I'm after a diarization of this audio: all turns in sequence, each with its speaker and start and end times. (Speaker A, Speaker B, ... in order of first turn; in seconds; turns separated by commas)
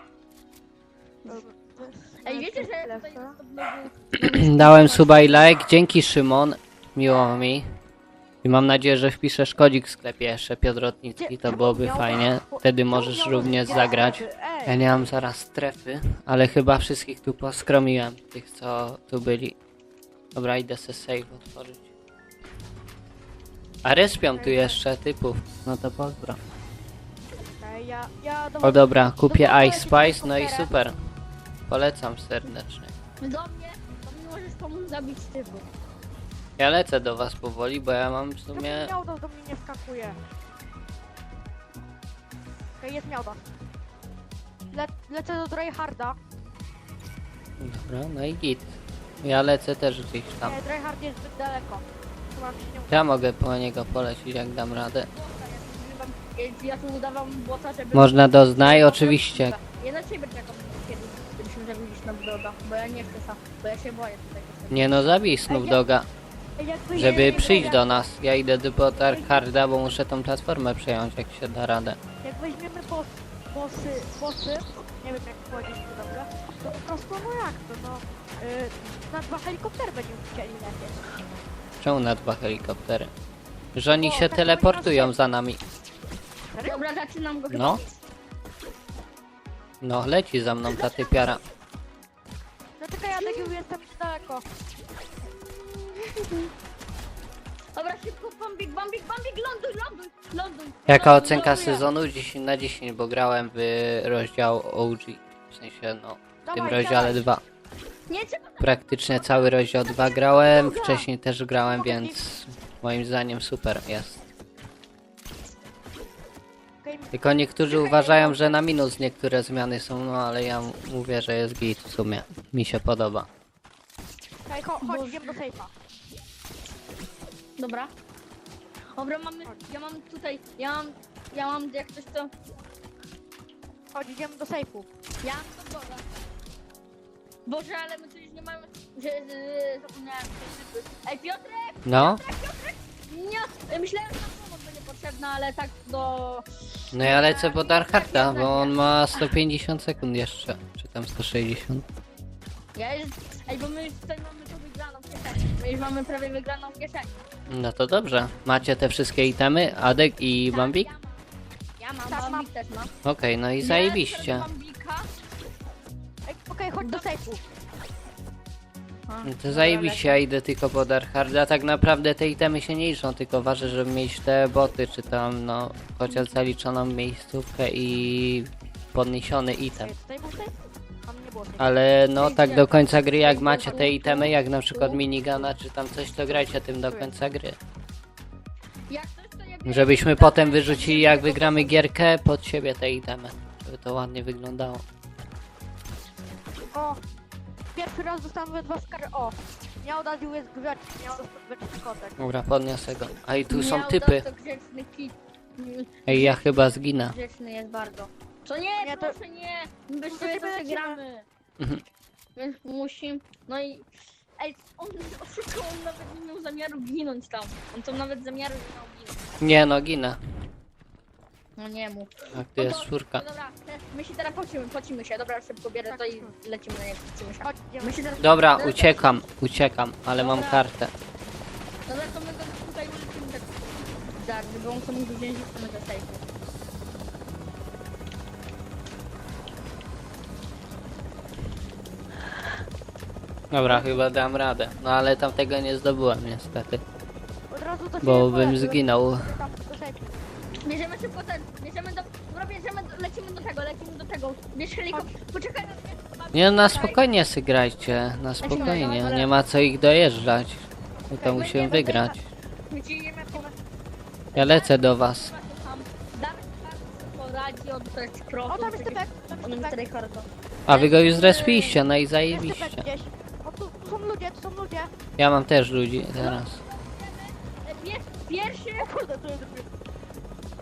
Speaker A: 1.3-3.4, Speaker B: 2.2-5.5, Speaker C: 4.2-7.7, Speaker C: 8.4-19.6, Speaker A: 11.2-14.8, Speaker C: 20.3-21.9, Speaker C: 23.8-26.4, Speaker A: 24.3-24.8, Speaker A: 27.6-30.7, Speaker C: 28.6-30.9, Speaker C: 31.7-32.9, Speaker B: 33.2-35.7, Speaker C: 36.6-38.9, Speaker A: 38.5-40.2, Speaker A: 42.8-43.5, Speaker A: 44.7-46.2, Speaker C: 47.6-50.6, Speaker A: 50.4-53.0, Speaker C: 52.9-55.1, Speaker B: 55.1-65.0, Speaker C: 57.9-59.6, Speaker C: 64.7-66.1, Speaker A: 65.5-65.8, Speaker A: 66.6-67.8, Speaker C: 66.9-72.0, Speaker B: 67.0-67.9, Speaker B: 69.0-69.4, Speaker A: 72.2-81.0, Speaker C: 81.8-83.1, Speaker C: 83.8-85.6, Speaker A: 83.9-85.2, Speaker A: 86.5-86.8, Speaker B: 86.6-87.8, Speaker C: 87.5-87.8, Speaker C: 89.8-91.4, Speaker B: 90.7-91.3, Speaker A: 92.8-94.4, Speaker B: 93.2-93.5, Speaker B: 95.4-96.5, Speaker B: 97.7-101.8, Speaker C: 100.9-107.4, Speaker A: 101.3-101.8, Speaker A: 106.4-107.2, Speaker B: 108.1-111.0, Speaker C: 108.6-114.2, Speaker A: 111.6-112.2, Speaker A: 116.8-117.1, Speaker C: 117.1-123.3, Speaker B: 117.7-118.5, Speaker A: 124.5-125.7, Speaker B: 124.8-125.4, Speaker B: 127.6-127.9, Speaker B: 128.9-132.3, Speaker A: 133.9-134.9, Speaker B: 135.2-136.0, Speaker B: 137.4-149.3, Speaker C: 141.8-142.2, Speaker C: 146.9-151.8, Speaker B: 152.7-157.2, Speaker C: 157.5-160.9, Speaker B: 160.5-161.2, Speaker B: 161.8-162.9, Speaker A: 162.1-162.5, Speaker C: 163.0-164.5, Speaker B: 163.6-165.1, Speaker A: 166.2-167.4, Speaker B: 166.8-167.1, Speaker B: 169.1-170.2, Speaker C: 169.2-179.9, Speaker A: 179.8-181.7, Speaker C: 181.6-187.6, Speaker B: 182.2-185.0, Speaker A: 186.9-187.1, Speaker B: 188.9-191.8, Speaker C: 189.7-194.8, Speaker A: 196.7-197.0, Speaker A: 197.7-202.2, Speaker C: 202.2-204.2, Speaker B: 203.5-206.4, Speaker C: 206.1-207.2, Speaker B: 207.1-211.2, Speaker A: 208.8-209.2, Speaker A: 210.1-211.0, Speaker B: 212.3-213.9, Speaker B: 214.4-219.2, Speaker C: 219.4-220.2, Speaker B: 221.6-229.2, Speaker C: 222.3-223.2, Speaker A: 225.8-226.3, Speaker A: 227.4-228.1, Speaker C: 228.2-230.9, Speaker B: 230.2-230.7, Speaker B: 231.9-236.2, Speaker C: 243.5-246.8, Speaker A: 247.5-250.2, Speaker C: 248.0-249.3, Speaker B: 250.6-257.0, Speaker C: 256.3-262.2, Speaker B: 258.4-259.3, Speaker A: 258.5-259.0, Speaker A: 261.1-262.1, Speaker B: 261.3-262.1, Speaker B: 262.7-263.5, Speaker B: 264.3-271.8, Speaker C: 264.3-265.3, Speaker A: 268.5-269.9, Speaker C: 270.7-272.9, Speaker A: 272.3-274.9, Speaker C: 275.2-276.6, Speaker B: 276.2-278.9, Speaker A: 278.8-279.7